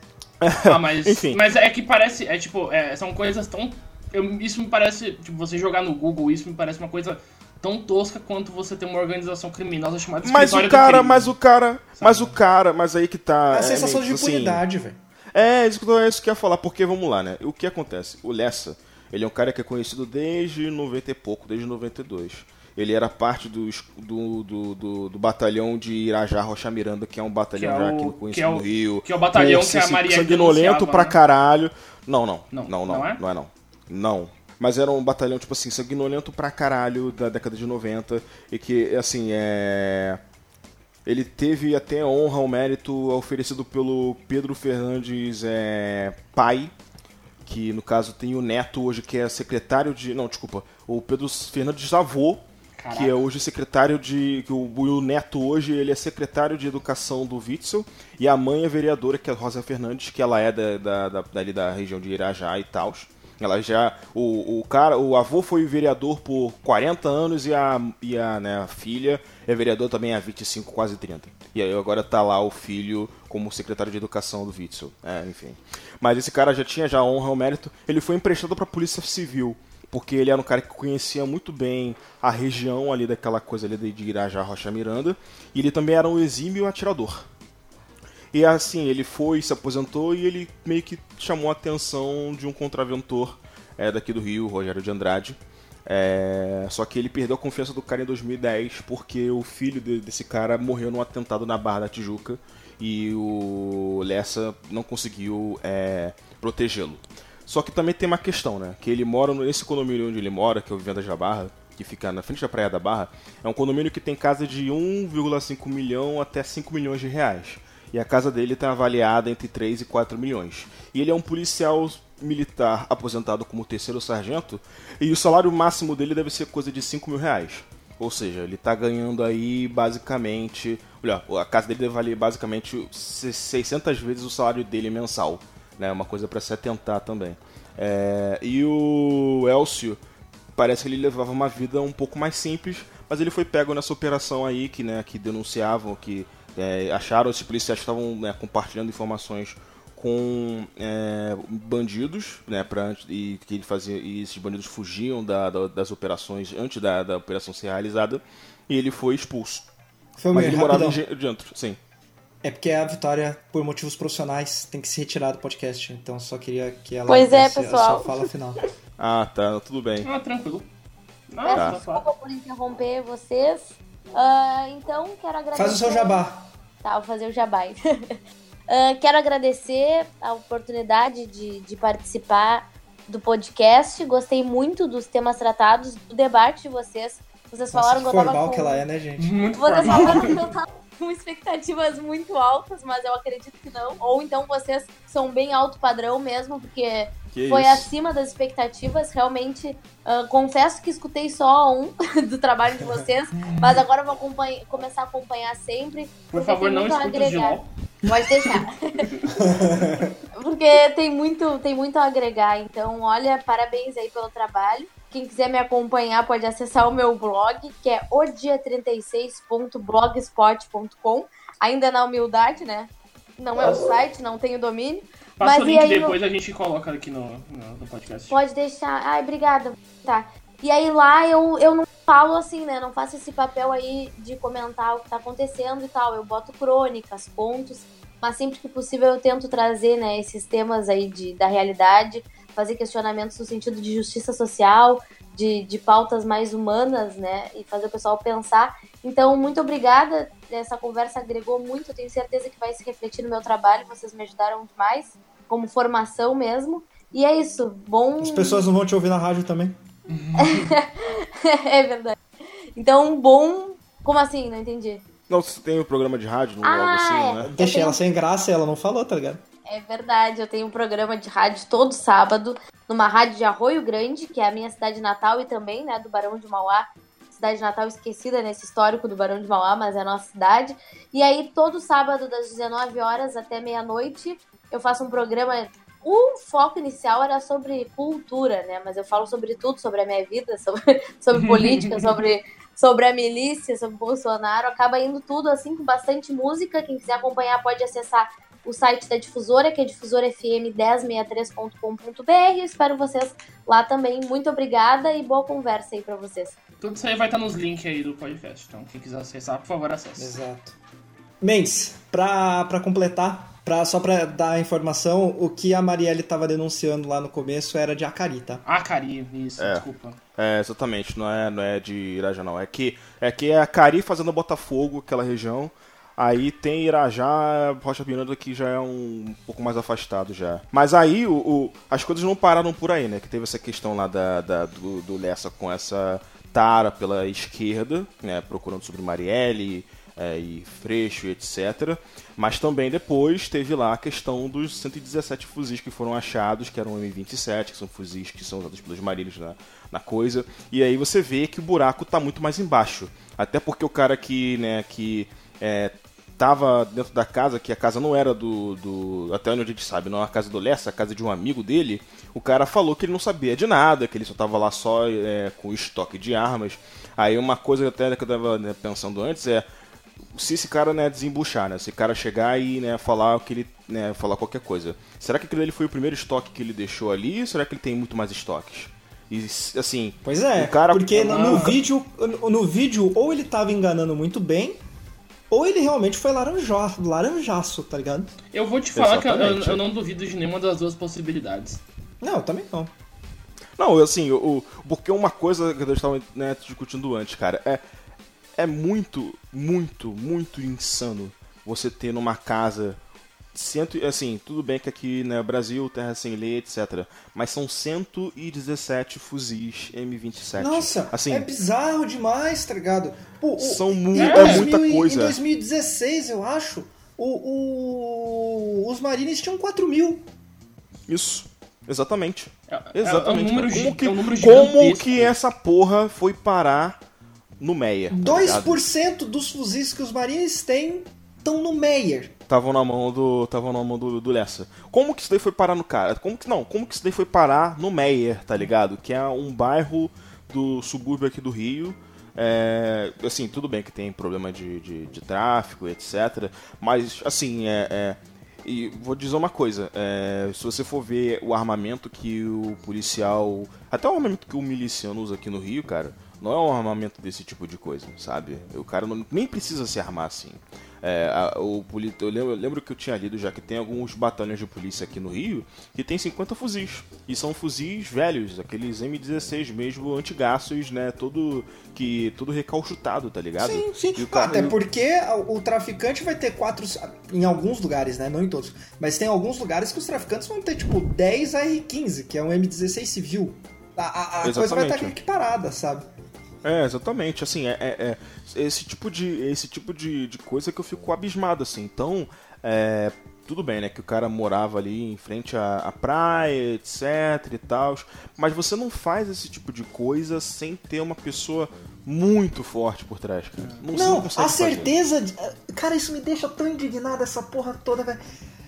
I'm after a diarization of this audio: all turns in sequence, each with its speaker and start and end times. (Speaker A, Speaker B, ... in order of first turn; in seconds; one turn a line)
Speaker A: 0.4-1.4
Speaker B: 0.6-11.3
Speaker A: 10.2-14.6
Speaker B: 12.0-12.4
Speaker C: 13.5-15.0
Speaker A: 15.3-40.2
Speaker B: 27.5-31.2
Speaker B: 32.5-33.2
Speaker A: 41.0-46.7
Speaker A: 47.4-87.3
Speaker B: 52.8-53.1
Speaker A: 88.3-140.0
Speaker A: 140.6-159.7
Speaker C: 160.2-161.0
Speaker A: 160.3-161.8
Speaker C: 162.4-168.7
Speaker D: 167.1-168.2
Speaker A: 169.0-170.1
Speaker B: 170.0-170.7
Speaker B: 171.3-172.1
Speaker D: 171.4-176.2
Speaker A: 171.5-171.8
Speaker C: 175.5-176.5
Speaker D: 176.8-188.8
Speaker C: 187.7-189.5
Speaker B: 189.2-190.4
Speaker D: 189.6-209.1
Speaker A: 197.3-197.9
Speaker B: 206.3-207.7
Speaker B: 208.4-209.4
Speaker C: 209.4-210.2
Speaker D: 210.3-226.1
Speaker B: 225.4-228.4
Speaker D: 228.3-258.6
Speaker C: 258.2-259.8
Speaker B: 260.1-260.7
Speaker D: 260.3-262.2
Speaker D: 262.7-265.0
Speaker A: 265.3-267.5
Speaker D: 266.6-268.0
Speaker C: 267.5-269.4
Speaker D: 269.7-306.6
Speaker B: 291.3-292.1
Speaker B: 306.8-310.3
Speaker C: 310.2-310.8
Speaker C: 311.4-318.6
Speaker B: 318.6-320.2
Speaker A: 319.6-319.8
Speaker A: 320.4-369.6
Speaker A: 370.3-381.8
Speaker C: 380.2-384.8
Speaker B: 381.3-381.8
Speaker C: 385.5-388.3
Speaker B: 388.5-391.8
Speaker A: 388.9-389.8
Speaker C: 392.2-392.9
Speaker A: 393.8-397.8
Speaker A: 398.6-403.0
Speaker A: 403.5-411.5
Speaker C: 410.6-420.2
Speaker A: 413.6-415.4
Speaker B: 414.1-414.7
Speaker A: 421.1-427.0
Speaker B: 422.7-425.3
Speaker A: 427.6-428.8
Speaker C: 428.1-432.3
Speaker A: 432.5-474.8
Speaker C: 473.6-486.1
Speaker A: 484.4-485.1
Speaker A: 486.6-504.9
Speaker B: 503.6-503.9
Speaker C: 503.9-508.2